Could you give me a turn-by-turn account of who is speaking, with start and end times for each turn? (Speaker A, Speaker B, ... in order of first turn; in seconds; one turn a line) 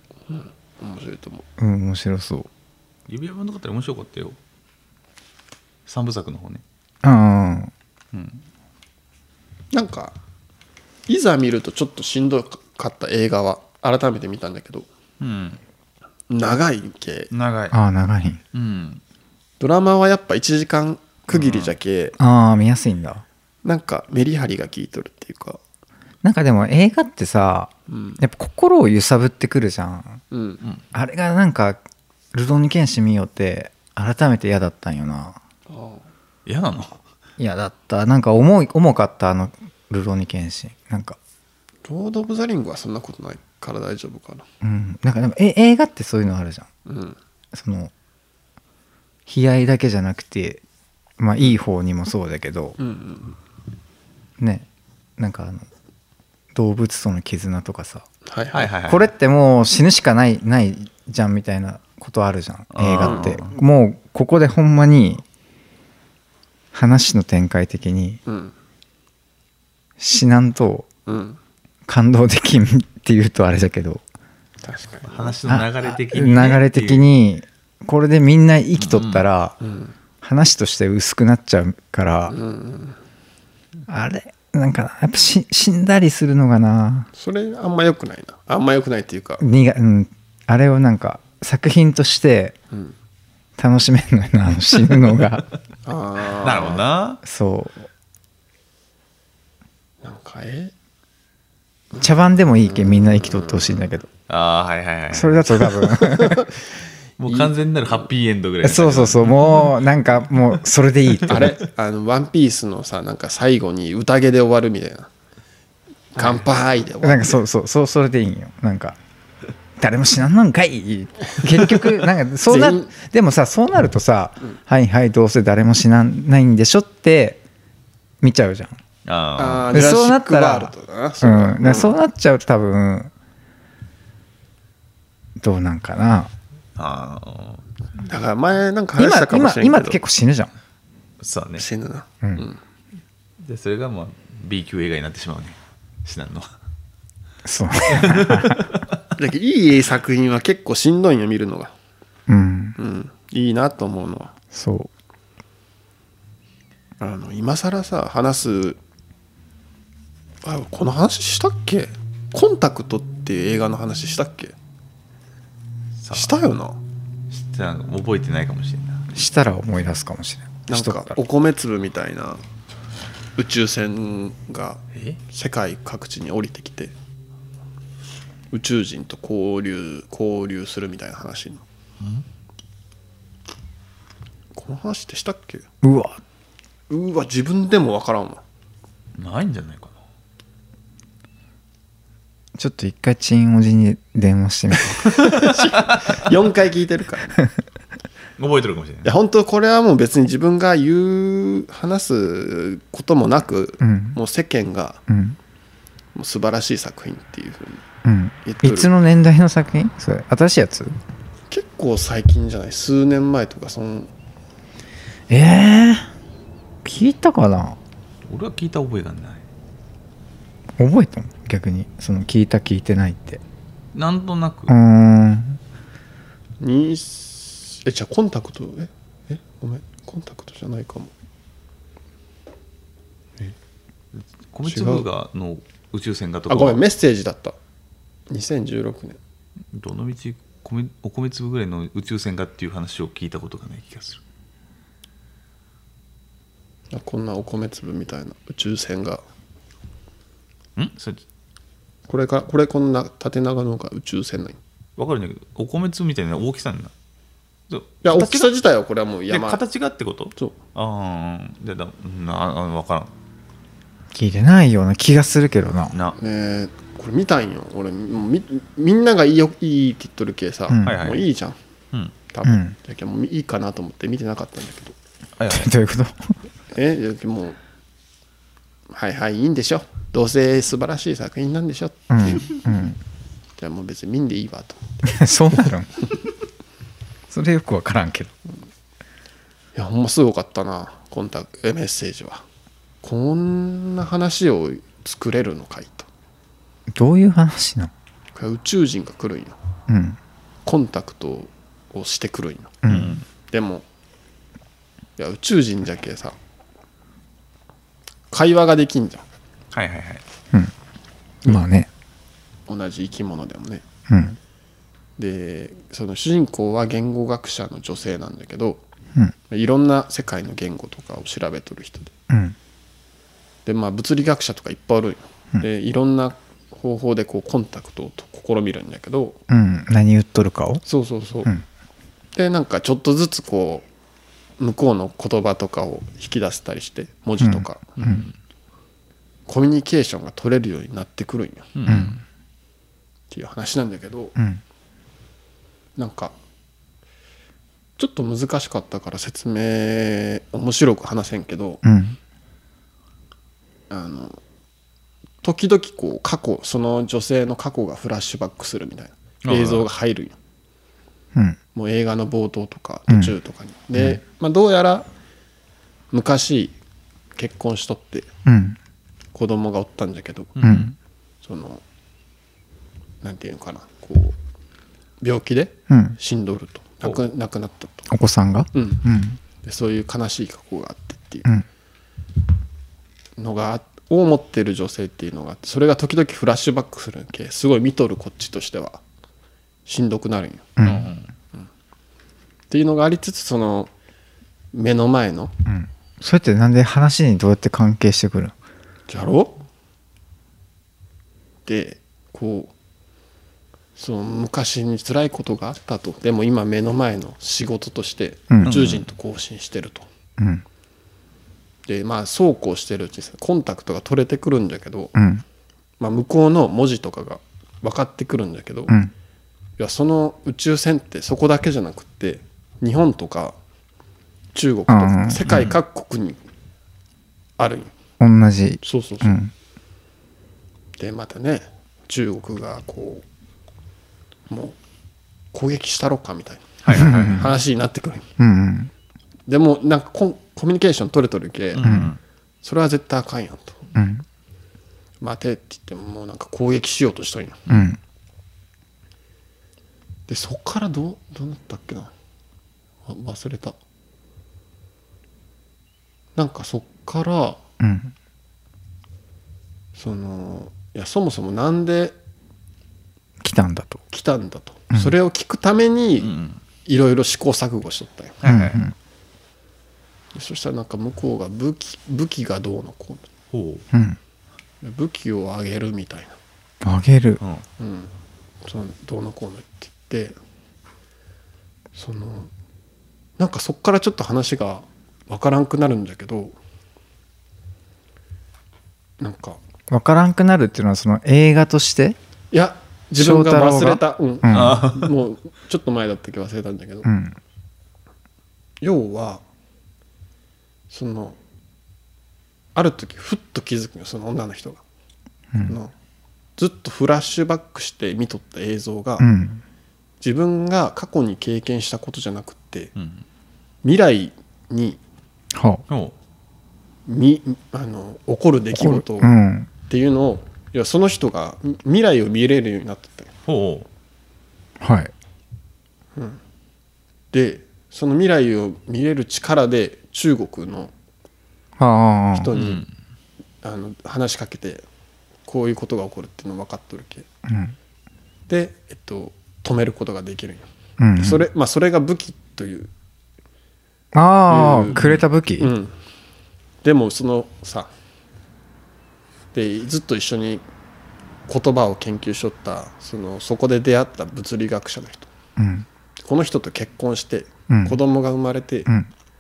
Speaker A: 0.3-1.5
Speaker B: 1.6-2.5
Speaker C: 3.1-4.4
Speaker C: 5.9-6.6
Speaker B: 7.0-7.7
Speaker C: 8.1-8.4
Speaker A: 9.7-10.2
Speaker A: 11.1-14.9
Speaker C: 15.2-15.6
Speaker A: 16.3-17.3
Speaker C: 17.3-17.8
Speaker B: 17.7-18.4
Speaker C: 18.5-19.0
Speaker A: 19.6-22.2
Speaker C: 21.3-21.7
Speaker B: 22.2-23.2
Speaker A: 23.6-25.6
Speaker B: 26.2-30.2
Speaker A: 27.9-28.2
Speaker A: 30.3-30.6
Speaker B: 30.9-31.8
Speaker B: 32.3-35.4
Speaker A: 35.7-36.0
Speaker C: 36.5-37.0
Speaker B: 37.4-41.2
Speaker A: 41.9-44.5
Speaker B: 44.6-46.7
Speaker A: 46.9-47.2
Speaker B: 47.5-47.9
Speaker B: 49.3-50.6
Speaker B: 51.2-52.8
Speaker A: 52.8-53.4
Speaker B: 54.4-54.7
Speaker B: 55.2-55.7
Speaker B: 56.5-58.1
Speaker A: 58.3-58.7
Speaker C: 58.5-59.1
Speaker B: 58.9-65.2
Speaker C: 62.7-63.5
Speaker A: 63.0-63.3
Speaker B: 66.7-68.2
Speaker A: 68.3-68.5
Speaker B: 70.0-70.9
Speaker A: 71.1-71.4
Speaker B: 71.9-74.0
Speaker A: 74.6-75.4
Speaker C: 75.0-77.1
Speaker B: 75.5-79.6
Speaker C: 78.8-79.2
Speaker A: 79.6-79.9
Speaker B: 80.2-82.4
Speaker A: 82.3-83.0
Speaker B: 83.9-87.1
Speaker A: 87.2-89.5
Speaker B: 89.4-92.6
Speaker B: 93.6-95.5
Speaker A: 95.9-96.8
Speaker C: 96.4-97.2
Speaker B: 97.2-97.9
Speaker A: 100.0-100.7
Speaker B: 102.0-104.1
Speaker A: 102.6-103.9
Speaker C: 104.3-105.5
Speaker B: 105.1-106.5
Speaker A: 105.6-106.6
Speaker C: 107.2-109.7
Speaker A: 107.3-108.0
Speaker B: 108.6-111.6
Speaker A: 111.3-115.1
Speaker A: 116.2-117.4
Speaker B: 117.0-119.0
Speaker B: 119.8-127.4
Speaker A: 122.5-122.9
Speaker B: 128.2-128.8
Speaker C: 129.1-129.8
Speaker A: 129.4-132.0
Speaker B: 129.7-133.1
Speaker B: 135.4-136.3
Speaker C: 136.8-137.6
Speaker A: 138.0-140.0
Speaker B: 139.0-140.5
Speaker C: 141.2-141.7
Speaker A: 141.6-142.6
Speaker C: 143.4-146.5
Speaker B: 147.4-148.7
Speaker C: 147.9-148.8
Speaker A: 149.2-151.7
Speaker B: 152.3-152.8
Speaker A: 152.8-154.3
Speaker B: 154.5-154.9
Speaker A: 157.0-158.8
Speaker A: 160.4-164.6
Speaker C: 166.0-166.4
Speaker A: 166.1-166.8
Speaker C: 167.3-169.1
Speaker B: 169.1-171.2
Speaker A: 170.7-172.4
Speaker A: 173.4-176.9
Speaker A: 178.5-181.6
Speaker C: 182.0-182.2
Speaker A: 184.6-185.6
Speaker B: 185.8-186.2
Speaker A: 186.9-188.4
Speaker C: 189.2-190.0
Speaker B: 192.6-195.3
Speaker A: 194.9-197.3
Speaker C: 195.4-196.2
Speaker C: 198.4-199.1
Speaker A: 199.0-205.0
Speaker B: 203.8-204.2
Speaker B: 205.1-205.4
Speaker A: 206.2-207.8
Speaker B: 208.1-211.0
Speaker A: 208.4-208.9
Speaker A: 211.5-214.1
Speaker B: 215.3-216.1
Speaker B: 216.8-217.8
Speaker C: 218.3-219.4
Speaker B: 220.8-223.4
Speaker C: 223.9-224.8
Speaker B: 224.7-225.6
Speaker A: 226.6-231.1
Speaker C: 234.5-236.8
Speaker A: 234.7-235.1
Speaker A: 236.5-237.6
Speaker A: 238.3-239.2
Speaker C: 239.7-244.2
Speaker A: 246.9-249.2
Speaker C: 250.8-251.2
Speaker A: 252.1-254.6
Speaker C: 255.0-256.9
Speaker C: 257.7-258.5
Speaker A: 258.0-259.6
Speaker C: 259.3-263.1
Speaker B: 264.1-265.9
Speaker A: 266.2-271.6
Speaker B: 270.7-271.0
Speaker C: 270.8-271.3
Speaker A: 272.3-274.9
Speaker B: 272.4-272.8
Speaker C: 275.4-275.7
Speaker B: 275.5-276.4
Speaker A: 276.7-277.6
Speaker A: 278.9-282.9
Speaker B: 282.1-283.0
Speaker A: 283.6-285.0
Speaker B: 285.0-285.9
Speaker B: 287.3-288.3
Speaker A: 289.8-292.4
Speaker A: 293.0-296.1
Speaker B: 296.9-297.9
Speaker A: 298.4-299.6
Speaker B: 299.9-300.2
Speaker A: 300.7-302.8
Speaker B: 302.8-303.2
Speaker C: 302.9-303.2
Speaker A: 303.5-303.9
Speaker A: 305.2-306.4
Speaker A: 308.3-309.2
Speaker C: 309.7-310.2
Speaker B: 311.4-311.9
Speaker A: 312.7-313.8
Speaker B: 314.1-314.4
Speaker A: 315.2-318.8
Speaker A: 319.5-322.1
Speaker B: 322.3-322.6
Speaker A: 323.7-329.4
Speaker B: 329.5-330.8
Speaker A: 330.9-331.5
Speaker A: 332.4-333.9
Speaker A: 334.6-338.1
Speaker B: 337.4-338.2
Speaker C: 338.0-338.3
Speaker A: 339.5-341.8
Speaker C: 341.8-342.2
Speaker B: 341.9-342.1
Speaker A: 343.3-344.4
Speaker A: 346.0-346.4
Speaker A: 348.0-351.8
Speaker B: 351.8-352.2
Speaker A: 353.9-354.4
Speaker A: 355.4-360.4
Speaker C: 359.4-359.9
Speaker A: 361.8-365.1
Speaker B: 363.1-363.3
Speaker A: 366.1-366.7
Speaker A: 367.4-368.3
Speaker B: 368.5-368.8
Speaker A: 369.3-370.6
Speaker C: 370.6-370.9
Speaker B: 370.6-370.9
Speaker A: 371.4-371.8
Speaker A: 373.2-374.4
Speaker A: 375.2-378.1
Speaker B: 375.9-376.2
Speaker B: 378.1-379.4
Speaker A: 378.7-379.0
Speaker A: 379.6-381.6
Speaker A: 383.4-389.0
Speaker A: 389.9-390.8
Speaker B: 390.8-391.1
Speaker C: 390.8-391.3
Speaker A: 392.7-393.9
Speaker A: 394.7-395.5
Speaker B: 395.7-398.5
Speaker A: 399.1-399.6
Speaker A: 401.7-402.7
Speaker A: 404.0-410.1
Speaker B: 408.5-408.8
Speaker C: 408.6-409.1
Speaker B: 410.4-410.6
Speaker A: 411.9-415.2
Speaker B: 415.2-415.4
Speaker A: 416.0-418.9
Speaker A: 419.8-423.6
Speaker A: 424.5-426.4
Speaker B: 424.9-425.5
Speaker C: 425.5-425.8
Speaker A: 427.6-427.9
Speaker B: 428.2-429.5
Speaker A: 428.8-429.4
Speaker A: 431.0-433.2
Speaker A: 434.5-434.8
Speaker A: 435.5-438.3
Speaker C: 436.8-437.5
Speaker B: 436.9-437.5
Speaker B: 438.4-438.9
Speaker A: 439.5-442.0
Speaker C: 441.8-442.2
Speaker B: 441.8-442.1
Speaker A: 442.6-443.9
Speaker B: 443.9-444.2
Speaker A: 445.2-447.7
Speaker C: 447.7-447.9
Speaker B: 447.7-448.0
Speaker A: 450.3-452.1
Speaker A: 453.1-453.8
Speaker A: 456.4-457.6
Speaker B: 457.8-458.1
Speaker A: 459.9-462.2
Speaker B: 463.4-464.0
Speaker A: 464.1-466.3
Speaker C: 466.2-466.6
Speaker A: 466.9-468.4
Speaker C: 468.4-468.9
Speaker B: 468.5-468.9
Speaker A: 470.3-473.3
Speaker C: 473.5-473.9
Speaker B: 473.9-474.2
Speaker A: 474.8-476.4
Speaker B: 476.8-477.4
Speaker A: 477.8-478.1
Speaker A: 478.6-480.4
Speaker A: 481.9-482.5
Speaker A: 483.4-486.5
Speaker A: 489.2-489.6
Speaker B: 489.9-492.2
Speaker A: 492.5-497.1
Speaker B: 493.2-494.9
Speaker C: 494.5-495.1
Speaker B: 497.1-497.4
Speaker A: 498.8-499.4
Speaker A: 500.9-501.4
Speaker A: 502.8-504.8
Speaker A: 505.6-505.9
Speaker A: 506.6-509.3
Speaker B: 509.2-509.6
Speaker A: 510.2-512.9
Speaker C: 513.0-513.2
Speaker A: 513.8-515.0
Speaker B: 515.5-515.8
Speaker C: 515.9-516.1
Speaker A: 517.1-519.4
Speaker B: 518.8-519.7
Speaker A: 519.9-523.3
Speaker C: 523.5-523.9
Speaker B: 524.8-525.1
Speaker A: 527.3-530.9
Speaker B: 531.8-532.5
Speaker A: 532.3-532.8
Speaker C: 532.5-532.9
Speaker A: 533.6-534.8
Speaker A: 535.5-537.3
Speaker B: 537.5-537.8
Speaker A: 538.5-540.7
Speaker B: 541.0-541.5
Speaker A: 541.2-542.9
Speaker B: 544.1-545.7
Speaker A: 544.5-545.1
Speaker C: 545.0-545.2
Speaker A: 545.6-545.9
Speaker A: 546.8-547.9
Speaker A: 549.5-550.6
Speaker A: 551.5-555.3
Speaker B: 555.6-555.9
Speaker A: 556.2-558.9
Speaker B: 557.7-558.0